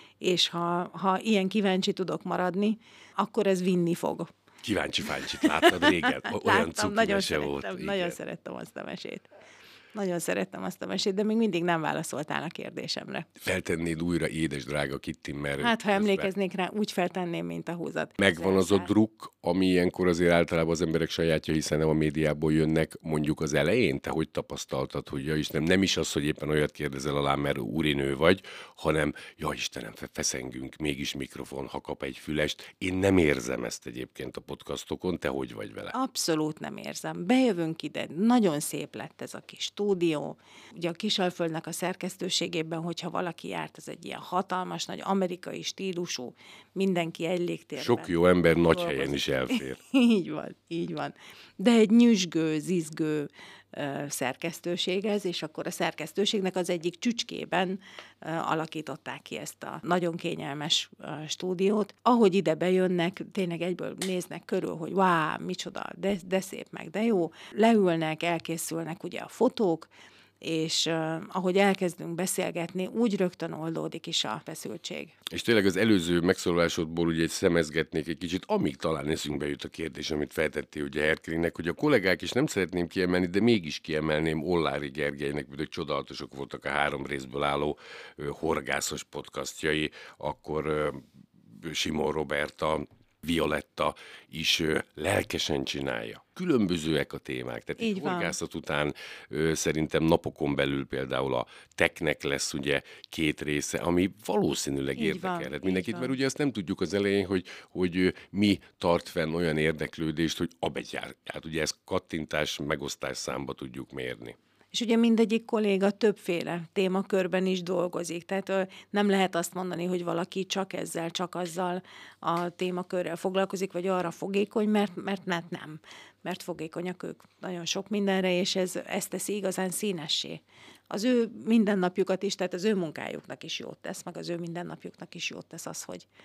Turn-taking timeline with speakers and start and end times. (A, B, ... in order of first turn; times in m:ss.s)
0:00.2-0:04.3 A
0:04.6-0:08.2 B
0:05.3-0:09.3 A
0:09.9-0:13.3 A
0:13.4-0:16.3 B
0:15.6-0:18.9 A
0:18.2-0:35.9 B
0:35.9-1:09.9 A
0:47.8-0:49.8 B
1:10.4-1:15.2 A
1:15.3-1:31.0 B
1:31.6-1:54.4 B
1:37.8-1:38.3 A
1:45.0-1:46.1 A
1:54.7-2:16.1 A